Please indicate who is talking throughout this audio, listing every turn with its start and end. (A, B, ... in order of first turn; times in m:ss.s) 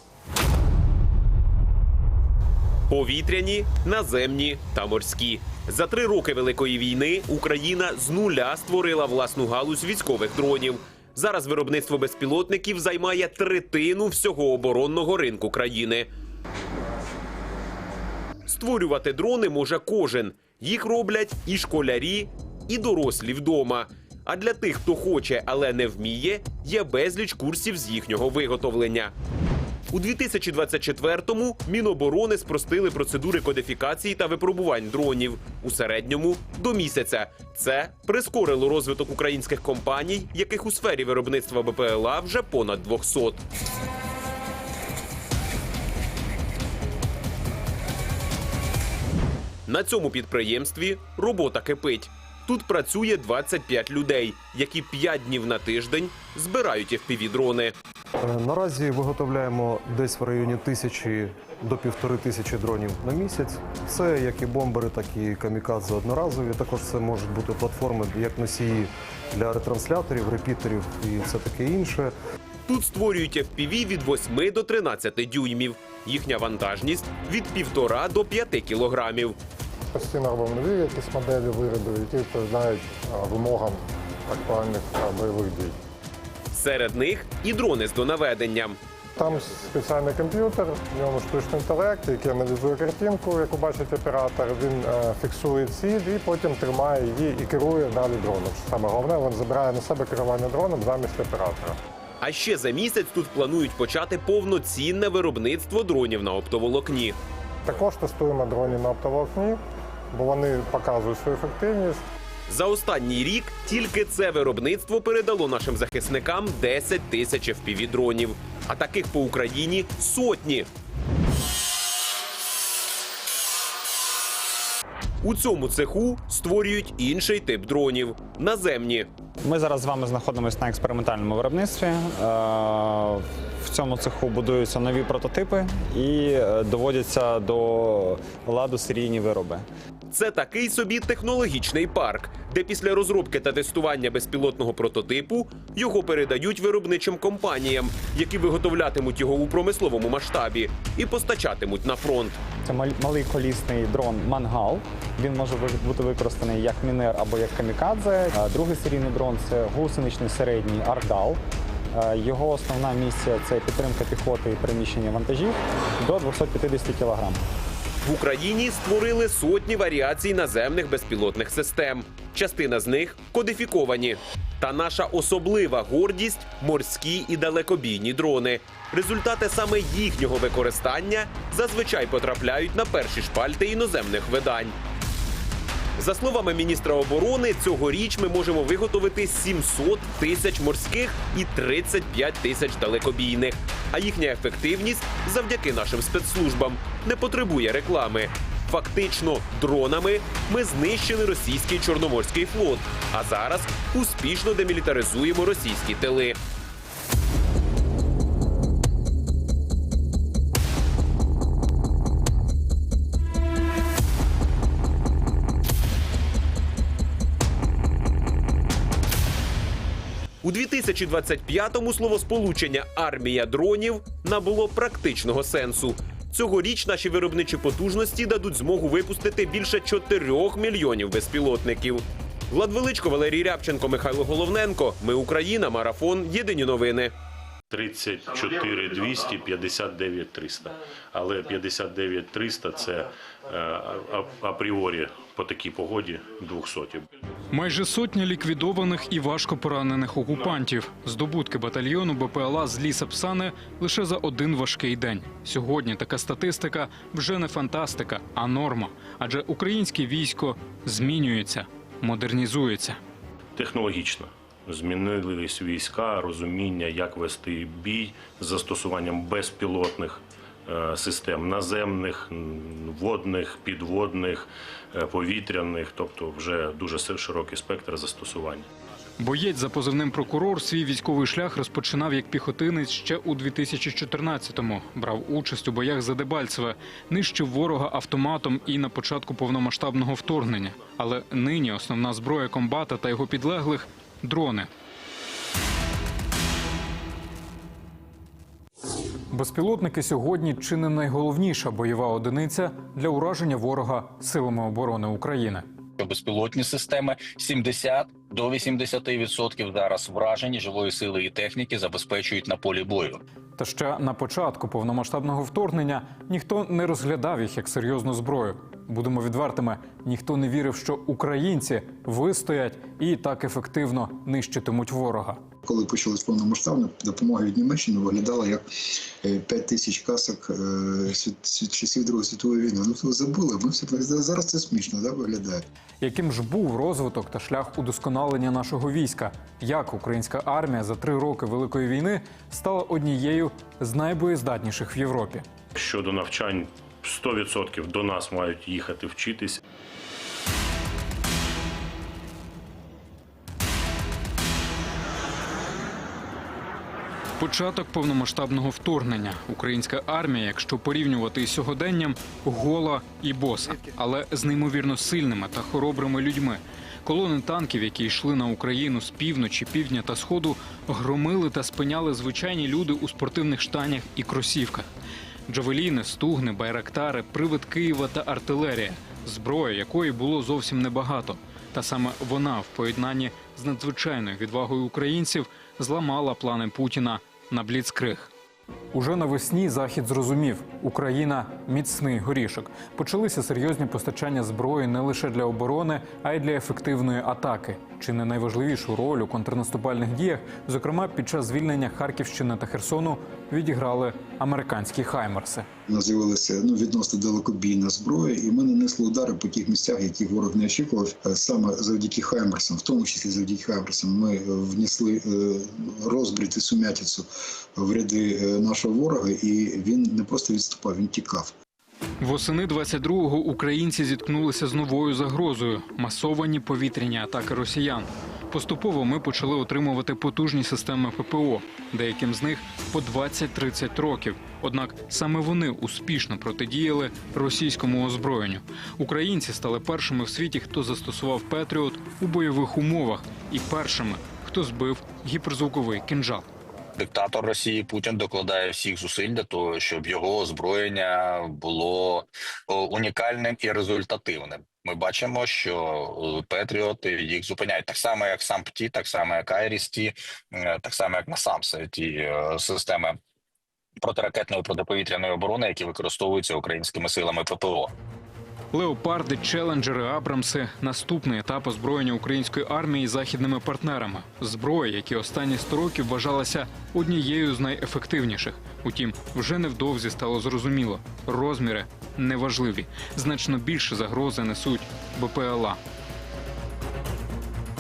0:02.9-0:16.1 A
0:18.5-0:29.1 A
0:29.9-0:43.4 A
0:49.7-0:57.7 A
0:58.3-1:12.1 B
1:12.7-1:19.4 A
1:19.9-1:25.8 C
1:26.5-1:28.8 A
1:29.2-1:41.8 C
1:42.2-1:47.2 A
1:47.6-1:52.0 C
1:52.5-2:00.7 A
2:05.2-2:09.1 A
2:09.4-2:19.7 D
2:20.1-2:32.4 A
2:32.6-2:41.4 D
2:41.9-2:47.4 D
2:48.0-3:04.8 A
3:06.0-3:26.4 A
3:40.4-3:57.1 A
3:57.7-4:07.1 E
4:07.5-4:23.0 F
4:23.6-4:38.7 E
4:39.2-4:54.7 F
4:59.3-5:05.6 F
5:06.0-5:13.2 G
5:13.6-5:25.4 F
5:25.6-5:28.6 H
5:29.2-5:35.7 H
5:36.0-5:45.4 F
5:45.8-5:49.6 E
5:57.4-6:14.9 F
6:15.5-6:28.3 F
6:28.9-6:45.7 F
6:45.9-7:01.5 H
7:02.2-7:26.5 F
7:27.0-7:43.2 G
7:44.0-7:47.9 G
7:48.7-8:05.8 F